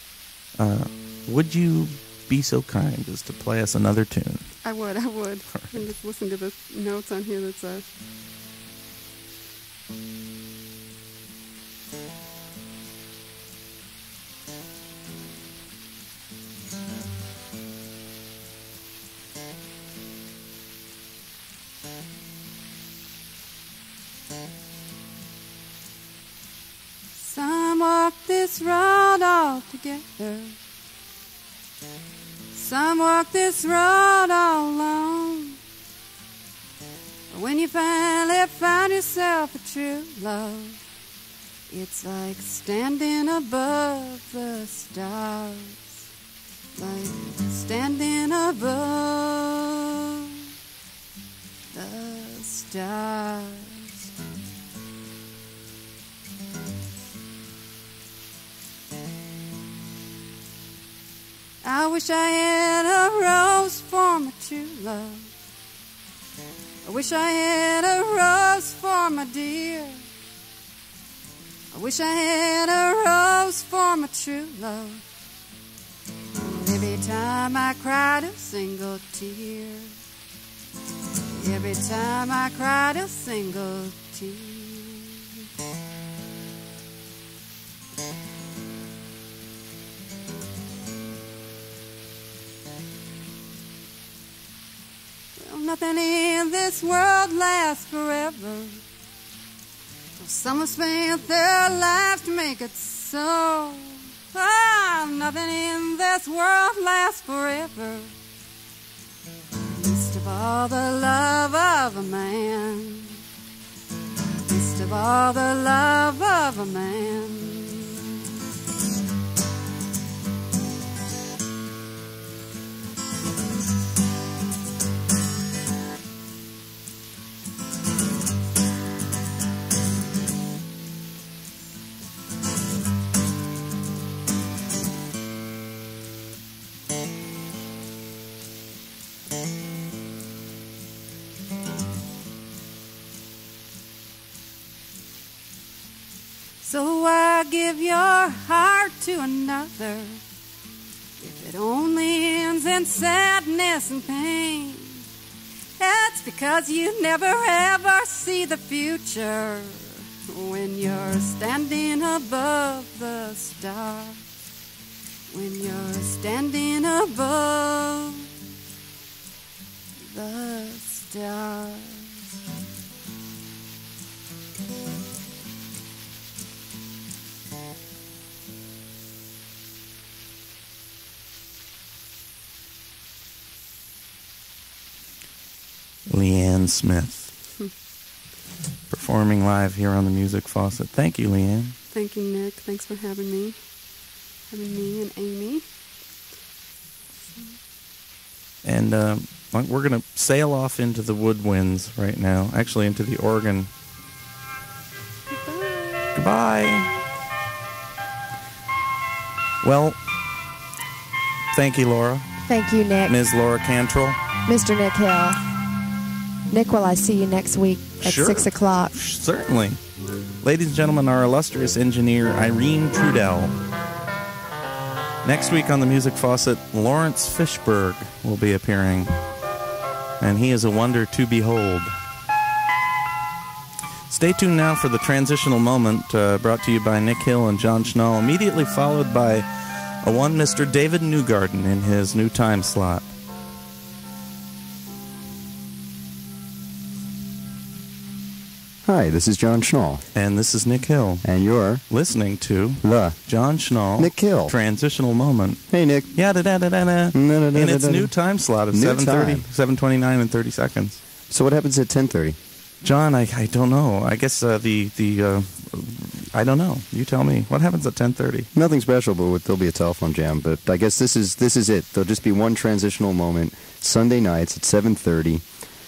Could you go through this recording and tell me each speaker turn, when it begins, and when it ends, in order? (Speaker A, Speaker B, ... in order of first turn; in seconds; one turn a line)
Speaker A: 0.6-4.6
Speaker B: 4.6-7.8
Speaker C: 27.2-30.6
Speaker C: 32.5-35.6
Speaker C: 37.3-40.8
Speaker C: 41.7-46.0
Speaker C: 46.8-50.2
Speaker C: 51.7-54.0
Speaker C: 61.6-65.3
Speaker C: 66.8-70.0
Speaker C: 71.7-75.0
Speaker C: 76.4-80.0
Speaker C: 81.4-85.4
Speaker C: 95.4-98.8
Speaker C: 100.2-108.1
Speaker C: 109.6-113.2
Speaker C: 114.5-118.2
Speaker C: 146.6-150.2
Speaker C: 151.2-155.0
Speaker C: 155.8-164.2
Speaker C: 165.3-168.3
Speaker C: 170.0-172.2
Speaker A: 186.1-187.3
Speaker A: 188.9-191.8
Speaker B: 191.9-195.6
Speaker B: 197.3-197.6
Speaker A: 198.6-203.7
Speaker B: 205.3-206.2
Speaker A: 206.1-206.9
Speaker A: 209.6-210.0
Speaker A: 211.5-212.4
Speaker D: 212.5-213.2
Speaker A: 213.1-214.2
Speaker D: 214.5-215.4
Speaker D: 216.5-218.9
Speaker A: 218.0-219.8
Speaker A: 220.4-223.5
Speaker A: 225.2-229.1
Speaker A: 230.2-232.0
Speaker A: 234.1-243.1
Speaker E: 248.8-250.0
Speaker A: 250.1-261.0
Speaker E: 251.2-251.8
Speaker E: 252.8-253.2
Speaker E: 254.0-254.5
Speaker E: 255.7-256.1
Speaker E: 257.1-258.1
Speaker E: 258.7-259.5
Speaker E: 261.3-262.4
Speaker A: 262.8-268.5
Speaker E: 268.5-275.5